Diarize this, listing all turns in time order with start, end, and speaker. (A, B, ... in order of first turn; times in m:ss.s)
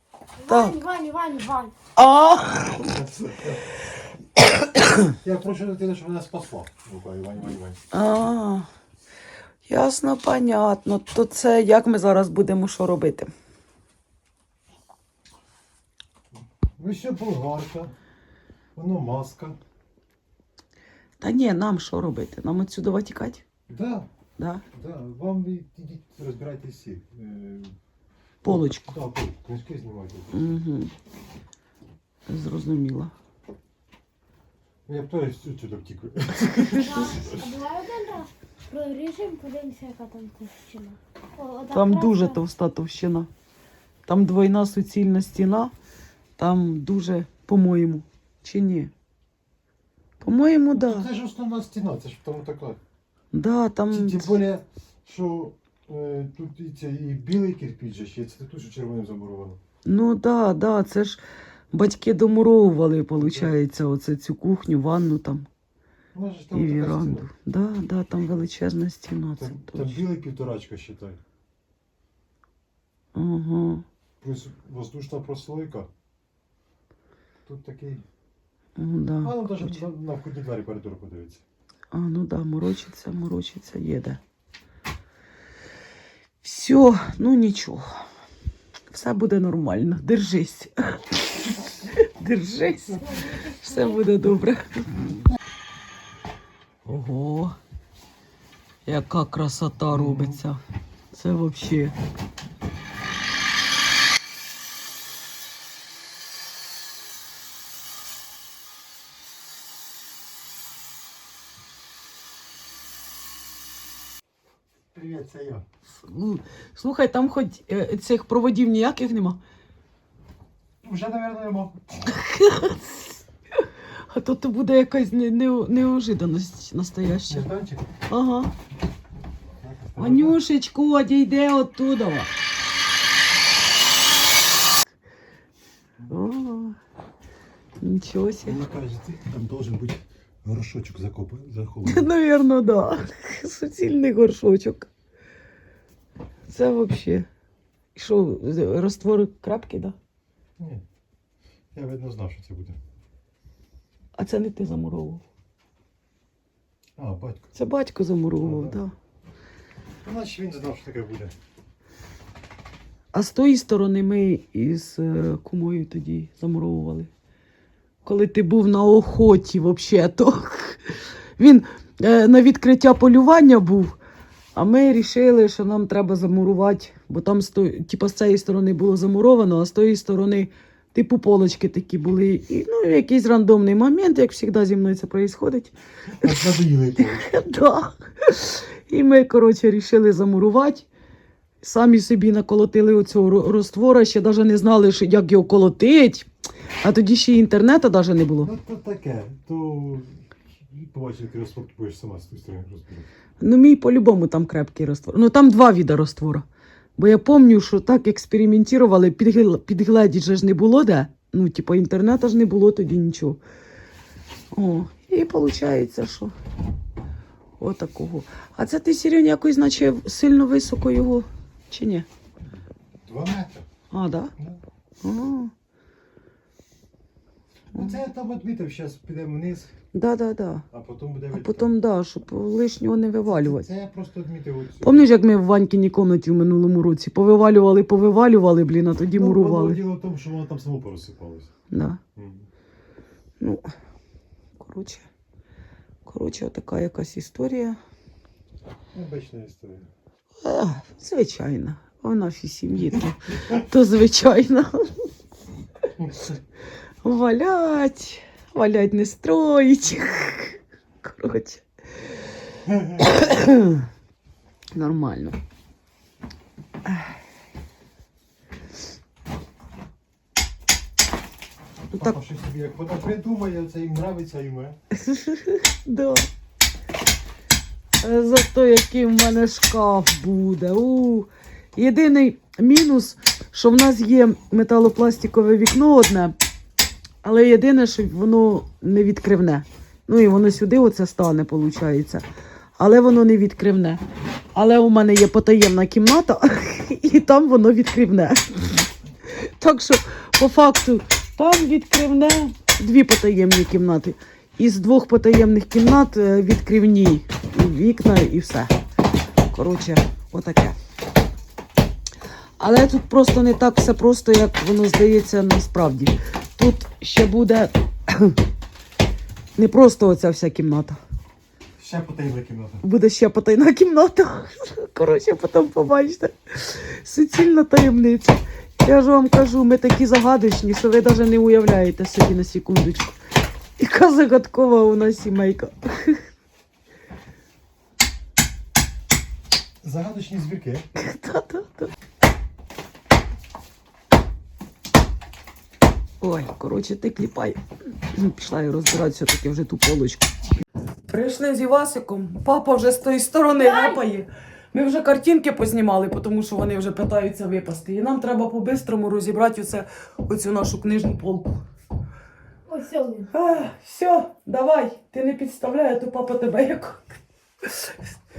0:00.4-0:01.7 A
0:00.5-0:00.8 B
0:02.0-0:02.8 B
0:02.7-0:03.6 C
0:05.1-0:07.8 C
0:07.9-0:08.7 B
0:09.6-0:13.3 B
0:16.8-0:17.9 C
0:18.8-0:19.6 C
0:21.2-0:23.4 B
0:23.7-0:24.1 C
0:24.4-0:24.6 B
0:24.7-0:27.8 C
0:28.4-0:28.9 B
0:28.4-0:30.5 C
0:30.3-0:30.9 B
0:32.3-0:33.1 B
0:34.9-0:37.4 C
0:36.6-0:36.9 B
0:36.7-0:42.4 A
0:41.7-0:43.3 B
0:44.0-0:45.7 B
0:46.4-0:48.9 B
0:50.2-0:51.1 B
0:50.8-0:52.8 C
0:53.3-0:54.3 B
0:53.9-0:59.6 C
0:59.8-1:05.5 B
1:03.2-1:03.5 C
1:06.1-1:07.3 C
1:06.5-1:10.0 B
1:09.4-1:11.2 C
1:13.1-1:13.8 B
1:14.2-1:15.9 C
1:17.4-1:18.0 C
1:18.8-1:19.8 B
1:19.2-1:21.4 C
1:21.9-1:24.2 B
1:26.4-1:27.9 B
1:28.9-1:33.1 B
1:32.9-1:34.0 A
1:33.6-1:35.2 B
1:36.8-1:37.6 B
1:38.9-1:40.6 B
1:39.9-1:40.4 C
1:41.1-1:41.9 B
1:54.9-1:55.6 C
1:56.0-1:59.4 B
2:00.8-2:02.2 C
2:02.0-2:07.5 B
2:07.2-2:08.0 C
2:08.1-2:08.5 B
2:09.6-2:10.4 C
2:10.0-2:12.3 B
2:16.1-2:16.8 B
2:17.8-2:18.6 B
2:18.4-2:22.1 C
2:21.8-2:24.9 B
2:26.5-2:27.3 B
2:27.9-2:30.0 B
2:30.6-2:30.8 C
2:31.7-2:32.8 C
2:34.2-2:35.2 B
2:37.0-2:37.5 C
2:37.5-2:38.9 B
2:38.4-2:38.8 C
2:40.0-2:41.3 C
2:43.1-2:47.1 B
2:48.0-2:54.0 B
2:54.5-3:10.9 B
3:06.1-3:07.3 C
3:11.6-3:16.3 B
3:16.8-3:18.5 B
3:18.4-3:23.1 C
3:23.4-3:26.4 B
3:27.0-3:33.4 B
3:34.5-3:36.4 B
3:37.6-3:42.1 B
3:43.0-3:43.7 C
3:43.9-3:44.3 B
3:44.4-3:44.6 C
3:45.0-3:45.5 B
3:47.7-3:49.7 C
3:49.9-3:50.7 B
3:50.7-3:51.7 C
3:51.3-3:53.7 B
3:53.3-3:55.0 C
3:54.8-3:59.8 B
3:59.1-4:01.5 C
4:01.7-4:02.0 B
4:02.1-4:02.5 C
4:04.6-4:05.1 B
4:06.0-4:07.8 B
4:08.9-4:09.9 C
4:10.4-4:15.1 B
4:16.0-4:16.3 C
4:17.0-4:21.6 B
4:22.6-4:23.1 C
4:23.0-4:23.9 B
4:24.8-4:25.4 B
4:32.0-4:34.8 C
4:34.9-4:36.3 B
4:38.0-4:46.4 B
4:47.2-4:52.2 B
4:52.8-4:54.0 B
4:54.6-5:08.7 B
5:09.5-5:10.8 B
5:12.6-5:18.4 B
5:19.6-5:21.0 B
5:21.8-5:22.8 C
5:22.8-5:33.2 B
5:33.8-5:36.2 B
5:39.8-5:40.9 C
5:40.9-5:41.9 B
5:46.2-5:50.3 B
5:51.1-6:01.6 B
5:53.6-5:54.0 A
6:02.7-6:03.3 A
6:03.3-6:08.0 B